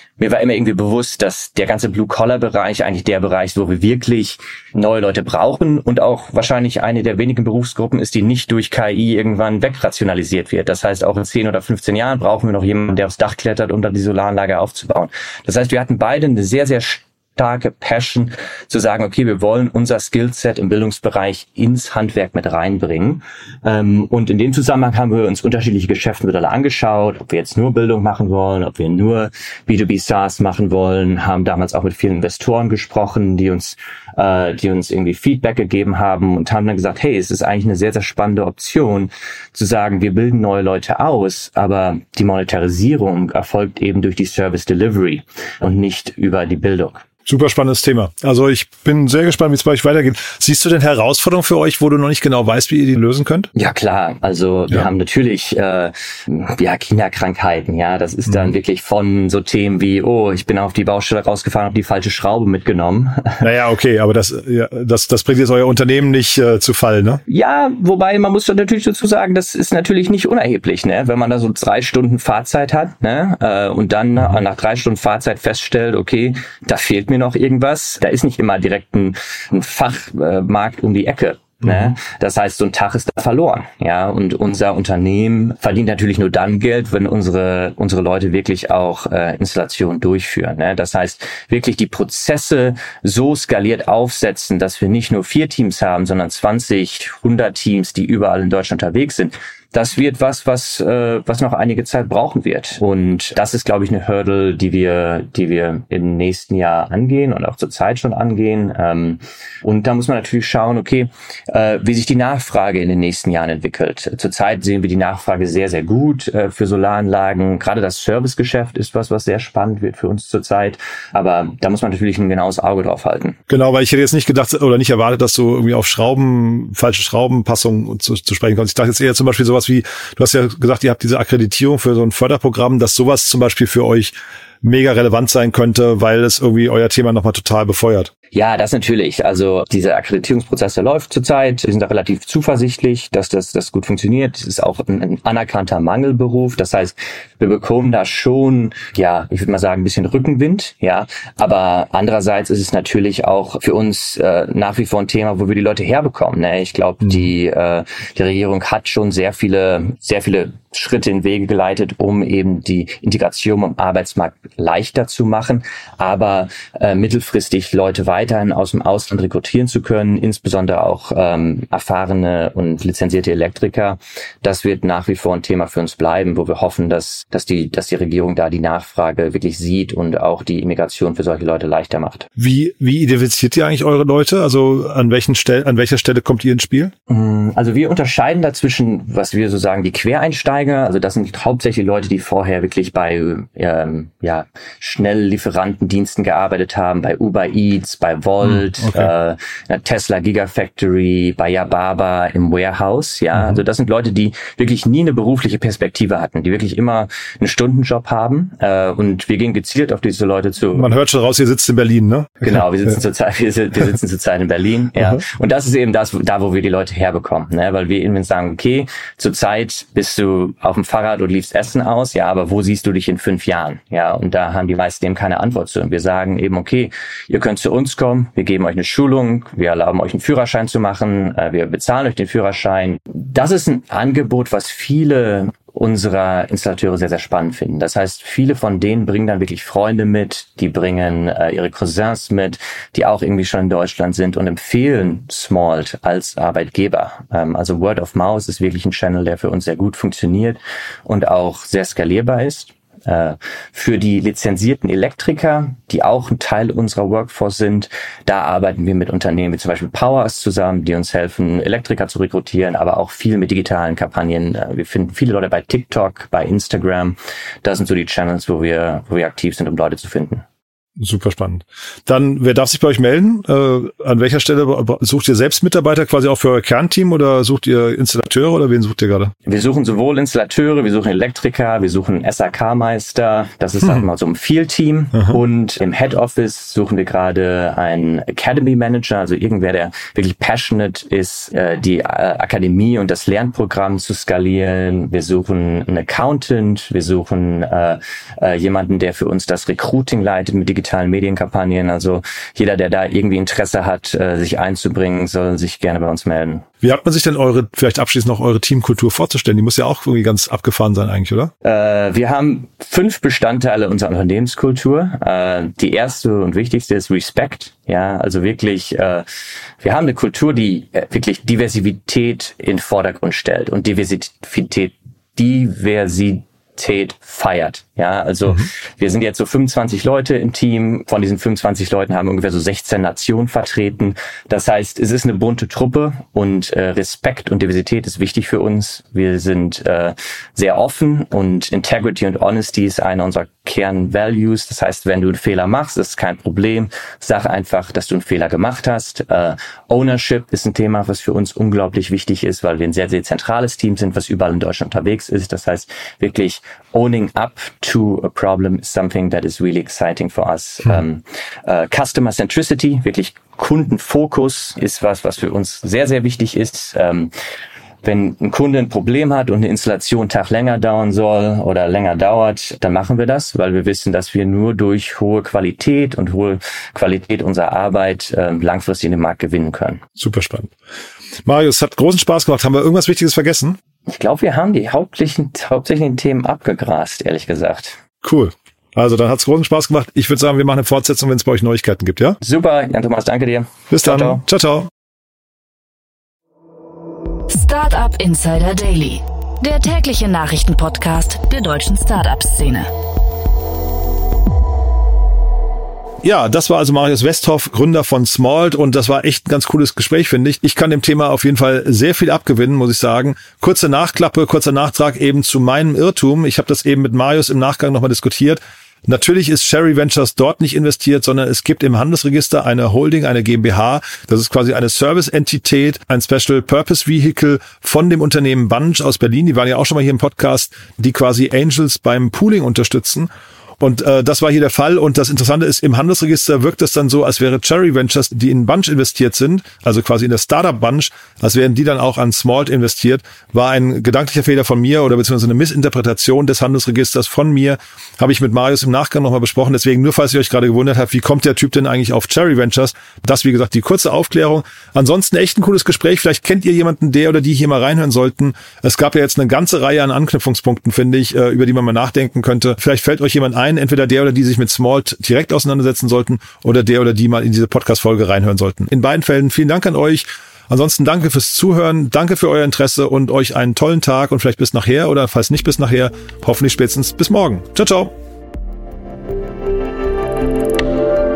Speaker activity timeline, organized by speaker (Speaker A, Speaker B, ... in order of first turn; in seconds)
Speaker A: 0.2-47.0, 53.5-63.5, 67.3-123.4, 138.3-182.3, 187.1-210.9, 212.4-270.4, 279.5-306.6, 311.6-319.3, 319.8-367.3, 368.0-380.0, 384.1-388.0, 392.4-394.4
Speaker B: 47.3-53.5, 63.4-67.2, 123.5-138.1, 182.4-186.9, 198.5-199.1, 210.7-212.9, 271.0-279.3, 306.8-311.5, 380.2-380.7, 381.4-383.8, 388.2-392.4, 393.9-394.9, 406.2-433.3, 433.8-478.1
Speaker C: 397.5-402.9